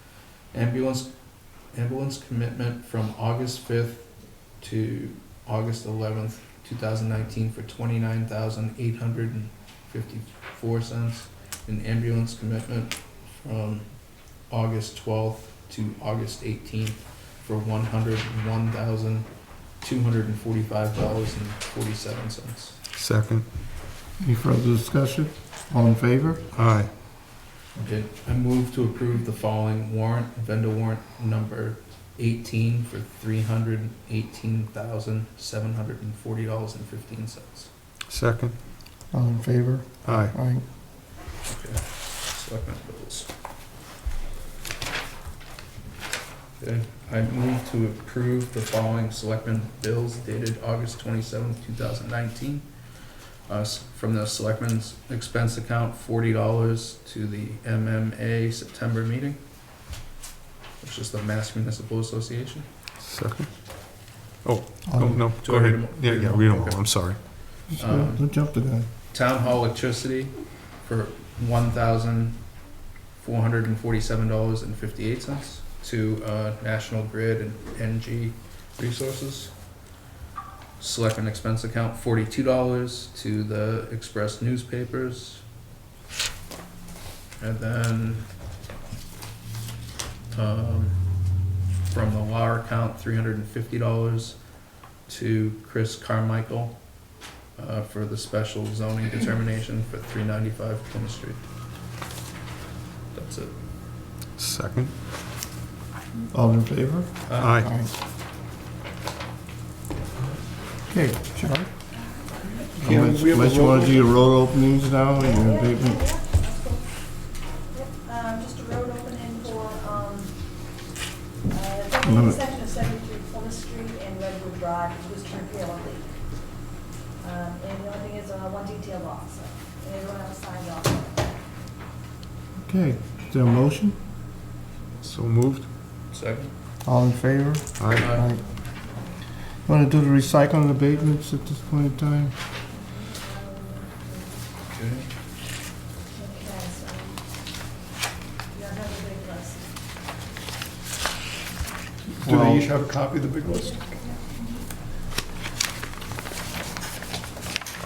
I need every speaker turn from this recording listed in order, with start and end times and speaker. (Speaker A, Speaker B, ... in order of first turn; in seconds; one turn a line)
Speaker A: 0.5-22.8
Speaker B: 22.9-23.4
Speaker C: 24.2-26.4
Speaker B: 26.5-26.9
Speaker A: 27.7-37.7
Speaker B: 38.1-38.5
Speaker C: 39.1-40.6
Speaker B: 40.0-40.3
Speaker A: 41.4-43.3
Speaker A: 46.6-52.7
Speaker A: 53.5-59.4
Speaker A: 60.8-62.7
Speaker B: 63.0-67.2
Speaker C: 64.9-65.2
Speaker A: 65.0-68.3
Speaker C: 67.7-68.9
Speaker A: 69.1-72.6
Speaker A: 73.2-79.6
Speaker A: 80.8-85.4
Speaker A: 87.4-88.3
Speaker A: 90.3-94.4
Speaker A: 95.0-101.4
Speaker A: 103.1-103.5
Speaker B: 104.3-104.9
Speaker C: 106.3-107.9
Speaker A: 107.2-107.7
Speaker B: 107.4-107.7
Speaker C: 110.9-111.7
Speaker D: 112.1-112.6
Speaker C: 112.8-116.1
Speaker E: 112.9-113.6
Speaker D: 115.2-120.7
Speaker D: 121.5-126.4
Speaker C: 122.0-122.4
Speaker D: 127.2-131.2
Speaker C: 132.6-134.0
Speaker B: 135.0-135.7
Speaker A: 136.1-136.5
Speaker C: 136.8-138.4
Speaker B: 137.8-138.2
Speaker A: 138.0-138.3
Speaker C: 139.7-142.3
Speaker D: 142.7-144.5
Speaker A: 144.7-145.1
Speaker D: 146.1-147.3
Speaker D: 148.5-149.8
Speaker E: 152.1-153.7
Speaker C: 152.2-152.7
Speaker D: 153.4-154.4